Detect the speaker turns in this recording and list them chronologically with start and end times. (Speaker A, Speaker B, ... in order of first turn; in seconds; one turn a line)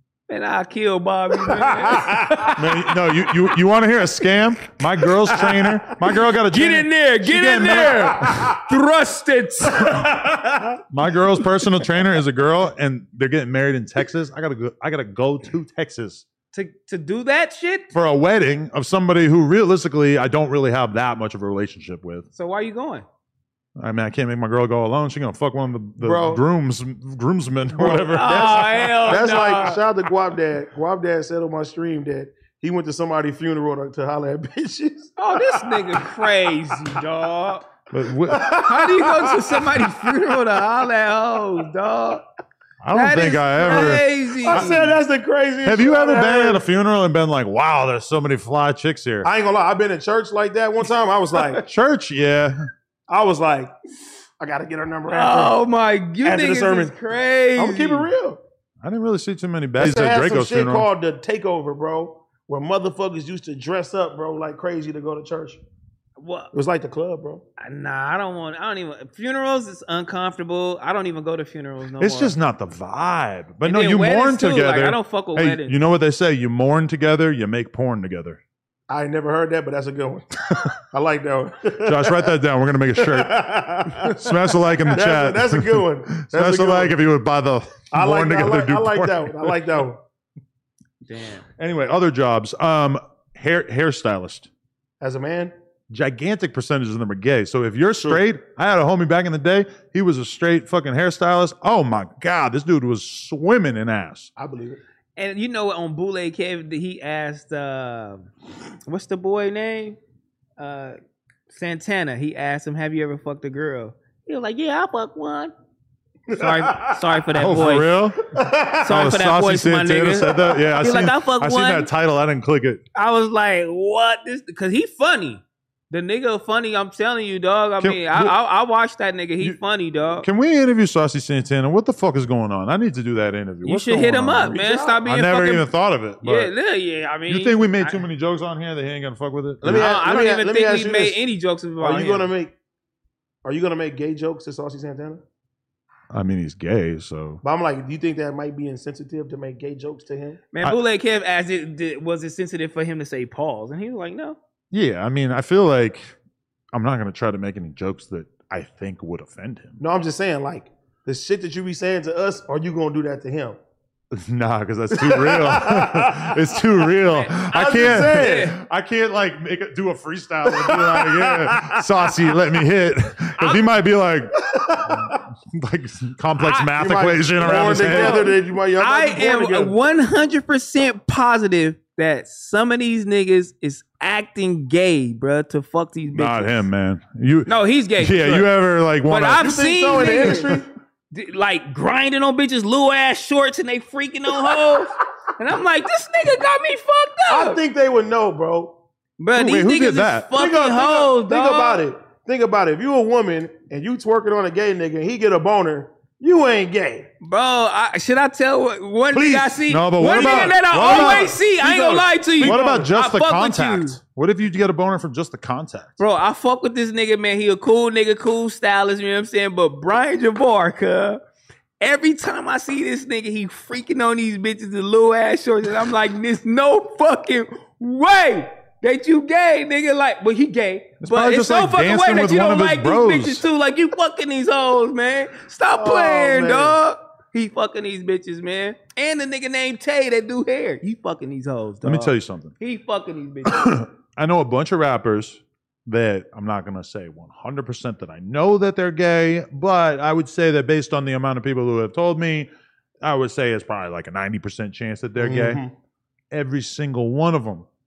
Speaker A: 0.3-2.9
Speaker B: 1.3-2.6
Speaker C: 2.5-8.5
Speaker A: 5.3-5.6
Speaker A: 6.5-10.1
Speaker B: 8.3-8.5
Speaker B: 9.7-10.8
Speaker C: 10.9-16.2
Speaker A: 16.5-17.9
Speaker C: 17.9-22.3
Speaker A: 22.4-23.0
Speaker C: 23.8-29.1
Speaker B: 26.0-26.4
Speaker B: 27.8-28.1
Speaker A: 27.9-29.8
Speaker B: 29.0-37.0
Speaker A: 35.2-37.6
Speaker C: 37.9-38.5
Speaker B: 38.3-40.4
Speaker A: 38.5-42.2
Speaker C: 42.8-44.9
Speaker A: 42.9-44.9
Speaker B: 43.7-46.6
Speaker C: 45.6-49.3
Speaker B: 49.2-51.6
Speaker C: 51.6-52.6
Speaker B: 53.1-53.7
Speaker B: 54.4-55.5
Speaker A: 55.1-58.1
Speaker B: 56.2-56.9
Speaker B: 57.5-58.4
Speaker C: 58.8-60.9
Speaker B: 59.8-65.6
Speaker A: 66.2-66.5
Speaker B: 66.5-67.4
Speaker A: 67.6-72.3
Speaker C: 72.0-78.4
Speaker A: 73.6-75.7
Speaker B: 78.9-82.3
Speaker C: 81.8-89.5
Speaker B: 82.9-84.3
Speaker B: 84.9-87.0
Speaker B: 87.9-90.0
Speaker A: 91.0-91.4
Speaker C: 91.6-94.5
Speaker B: 95.0-95.5
Speaker C: 95.9-104.3
Speaker B: 104.3-104.8
Speaker A: 105.2-108.3
Speaker A: 108.8-110.0
Speaker A: 110.6-111.0
Speaker A: 111.5-115.5
Speaker A: 116.3-117.9
Speaker B: 116.3-117.0
Speaker C: 117.3-118.2
Speaker B: 118.3-119.0
Speaker A: 118.8-121.9
Speaker C: 118.8-122.8
Speaker A: 122.9-130.3
Speaker C: 127.8-128.3
Speaker C: 130.2-136.5
Speaker A: 133.6-135.7
Speaker B: 134.5-135.0
Speaker A: 136.2-138.0
Speaker C: 137.3-139.9
Speaker B: 139.6-141.2
Speaker A: 139.6-142.3
Speaker B: 141.8-142.5
Speaker B: 143.4-145.2
Speaker C: 146.1-147.4
Speaker B: 147.4-150.4
Speaker A: 150.5-154.4
Speaker C: 154.7-156.1
Speaker C: 156.7-159.8
Speaker B: 159.8-163.6
Speaker C: 164.1-178.2
Speaker B: 164.9-166.8
Speaker A: 167.1-168.6
Speaker B: 167.3-168.6
Speaker B: 170.4-172.3
Speaker B: 174.4-175.2
Speaker A: 176.4-176.7
Speaker B: 176.7-179.8
Speaker A: 177.4-186.7
Speaker C: 186.1-189.6
Speaker A: 187.5-188.5
Speaker A: 189.0-197.6
Speaker B: 189.4-190.7
Speaker B: 194.4-194.8
Speaker B: 197.3-198.8
Speaker A: 199.2-201.8
Speaker C: 199.3-200.3
Speaker B: 200.3-207.1
Speaker A: 207.2-214.0
Speaker B: 209.1-212.9
Speaker C: 209.7-211.3
Speaker C: 212.4-216.0
Speaker A: 216.0-221.2
Speaker A: 221.8-243.8
Speaker C: 231.0-233.4
Speaker B: 235.7-236.8
Speaker C: 241.8-242.5
Speaker C: 243.4-252.5
Speaker C: 253.0-255.6
Speaker B: 255.2-255.7
Speaker C: 256.3-257.6